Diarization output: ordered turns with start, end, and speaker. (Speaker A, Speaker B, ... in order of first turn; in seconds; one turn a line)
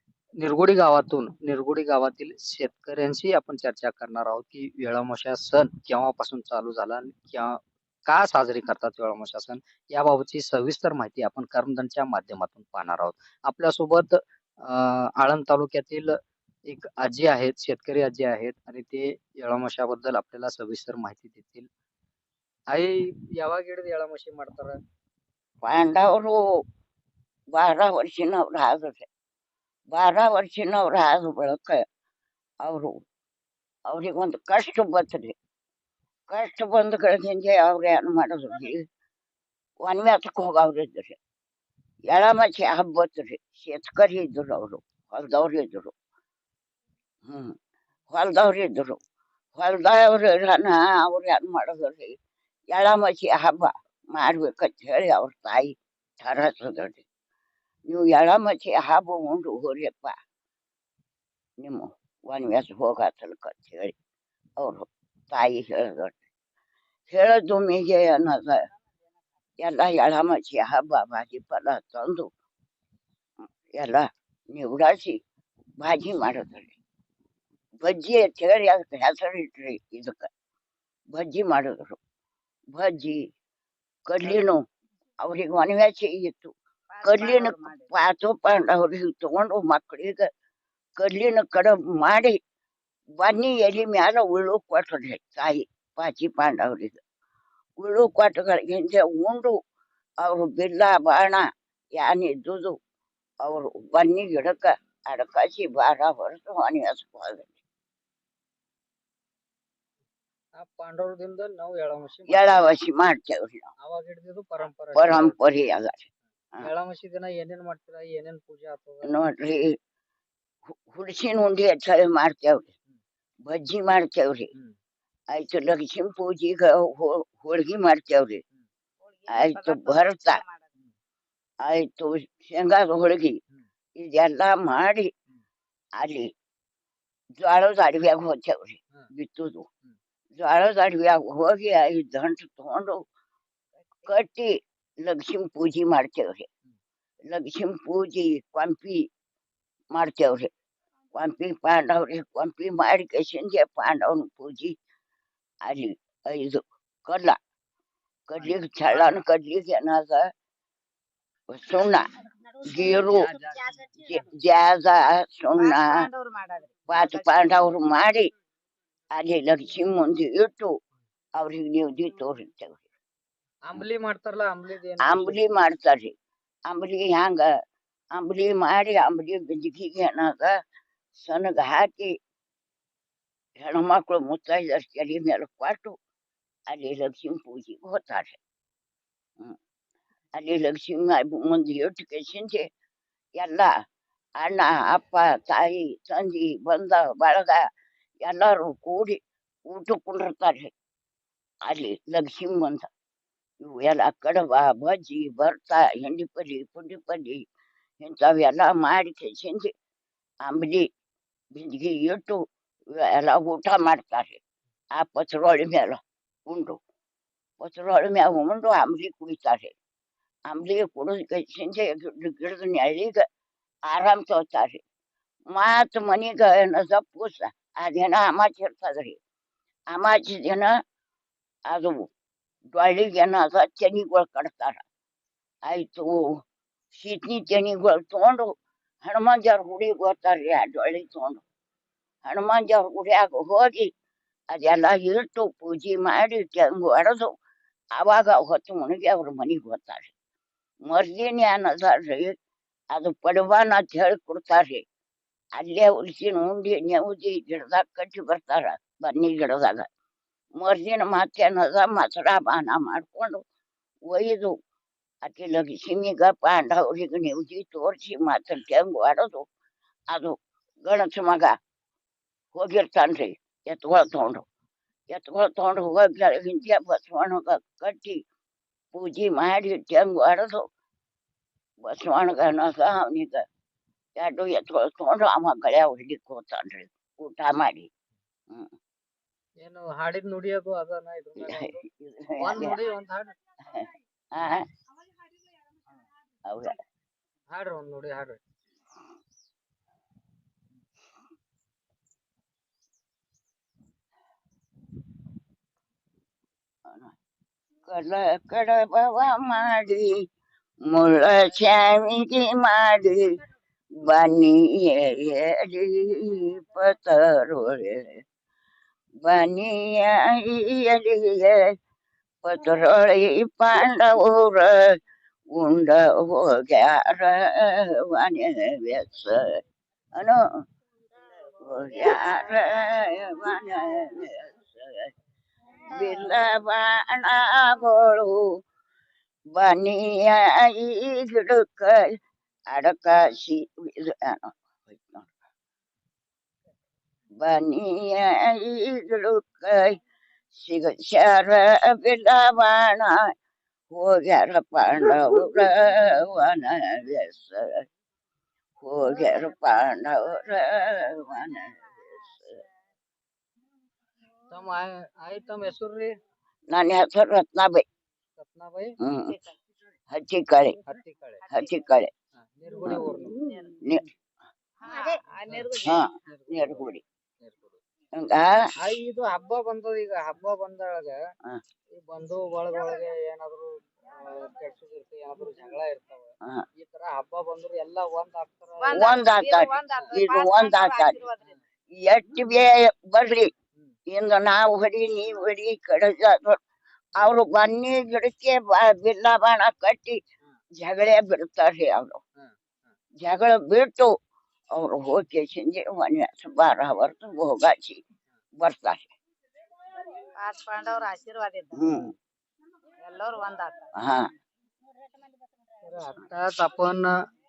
Speaker A: 0.4-21.7
Speaker A: 22.7-24.8
Speaker B: 25.6-26.4
Speaker B: 27.5-29.1
Speaker B: 29.9-31.8
Speaker B: 32.6-33.0
Speaker B: 33.9-35.3
Speaker B: 36.3-38.8
Speaker B: 39.8-41.2
Speaker B: 42.1-45.9
Speaker B: 47.2-47.5
Speaker B: 48.1-49.0
Speaker B: 49.5-52.2
Speaker B: 52.7-57.0
Speaker B: 57.9-60.2
Speaker B: 61.6-63.9
Speaker B: 64.6-66.1
Speaker B: 67.1-68.6
Speaker B: 69.6-72.3
Speaker B: 73.7-75.2
Speaker B: 75.8-76.7
Speaker B: 77.8-80.3
Speaker B: 81.1-82.0
Speaker B: 82.7-83.3
Speaker B: 84.1-84.6
Speaker B: 85.2-90.3
Speaker C: 86.9-87.9
Speaker B: 91.0-92.4
Speaker B: 93.2-97.0
Speaker B: 97.8-99.5
Speaker B: 100.2-102.8
Speaker B: 103.4-107.5
Speaker A: 110.5-112.7
Speaker B: 112.2-113.7
Speaker A: 113.8-115.4
Speaker B: 114.9-116.7
Speaker A: 116.6-119.3
Speaker B: 119.0-119.8
Speaker B: 120.9-122.7
Speaker B: 123.4-124.5
Speaker B: 125.3-128.4
Speaker C: 129.2-130.7
Speaker B: 129.3-130.4
Speaker B: 131.6-133.4
Speaker B: 134.0-135.1
Speaker B: 136.0-136.3
Speaker B: 137.4-139.7
Speaker B: 140.3-143.0
Speaker B: 144.1-146.5
Speaker B: 147.3-149.1
Speaker B: 149.9-150.5
Speaker B: 151.1-154.8
Speaker B: 155.6-157.4
Speaker B: 158.3-160.2
Speaker B: 161.5-162.1
Speaker B: 162.6-163.3
Speaker C: 162.7-164.2
Speaker B: 163.9-166.1
Speaker C: 165.6-167.5
Speaker B: 166.9-168.3
Speaker B: 169.1-170.7
Speaker B: 171.4-172.9
Speaker A: 173.7-175.4
Speaker B: 175.0-176.1
Speaker B: 176.7-177.5
Speaker B: 178.1-180.5
Speaker B: 181.2-182.1
Speaker B: 183.6-185.9
Speaker B: 186.7-188.4
Speaker B: 190.3-192.6
Speaker B: 193.4-193.7
Speaker B: 194.4-197.7
Speaker B: 198.2-200.7
Speaker B: 201.7-202.9
Speaker B: 203.6-207.4
Speaker B: 208.0-209.7
Speaker B: 210.4-210.9
Speaker B: 211.5-212.4
Speaker B: 212.9-214.4
Speaker B: 214.9-216.8
Speaker B: 217.6-219.7
Speaker B: 220.5-223.2
Speaker B: 223.8-224.8
Speaker B: 225.5-229.2
Speaker B: 229.9-230.7
Speaker B: 231.7-232.1
Speaker B: 232.7-234.8
Speaker B: 235.6-236.4
Speaker B: 236.9-241.4
Speaker B: 242.2-243.9
Speaker B: 244.5-247.3
Speaker B: 247.9-250.1
Speaker B: 250.8-252.3
Speaker B: 252.9-254.8
Speaker B: 255.6-259.9
Speaker B: 260.6-263.4
Speaker B: 264.1-264.5
Speaker B: 265.2-269.4
Speaker B: 270.1-271.6
Speaker B: 272.5-274.4
Speaker B: 275.1-278.2
Speaker B: 278.9-280.6
Speaker B: 281.8-283.4
Speaker B: 284.2-287.9
Speaker A: 289.6-291.8
Speaker B: 291.4-292.8
Speaker A: 292.4-293.3
Speaker B: 294.3-294.6
Speaker B: 296.5-296.8
Speaker A: 297.5-298.4
Speaker B: 306.9-307.1
Speaker B: 307.9-310.2
Speaker B: 310.9-313.2
Speaker B: 314.0-318.1
Speaker B: 319.2-321.7
Speaker B: 322.4-325.0
Speaker B: 325.5-329.4
Speaker B: 330.1-330.4
Speaker B: 331.7-335.1
Speaker C: 331.9-332.4
Speaker B: 335.9-338.4
Speaker B: 339.6-342.0
Speaker B: 342.7-345.3
Speaker B: 347.4-350.0
Speaker B: 350.5-353.3
Speaker B: 353.9-357.8
Speaker B: 358.8-362.6
Speaker A: 364.5-366.1
Speaker B: 366.7-367.8
Speaker A: 368.4-368.9
Speaker B: 369.0-369.4
Speaker C: 369.3-369.6
Speaker B: 370.1-370.8
Speaker A: 370.8-371.4
Speaker C: 371.4-371.8
Speaker B: 371.5-372.1
Speaker A: 372.4-373.4
Speaker B: 372.8-374.1
Speaker C: 373.4-373.8
Speaker C: 374.8-376.1
Speaker B: 375.7-377.0
Speaker A: 376.3-377.8
Speaker B: 378.2-378.6
Speaker A: 378.8-381.1
Speaker A: 382.0-383.7
Speaker A: 384.4-389.0
Speaker C: 388.8-391.5
Speaker B: 388.9-391.2
Speaker B: 392.0-393.5
Speaker B: 394.1-396.6
Speaker B: 397.1-400.2
Speaker B: 400.8-402.2
Speaker B: 403.2-404.1
Speaker B: 404.7-408.0
Speaker B: 408.6-409.1
Speaker C: 410.4-412.0
Speaker B: 411.7-412.1
Speaker C: 413.0-413.9
Speaker B: 414.0-414.3
Speaker A: 415.8-417.1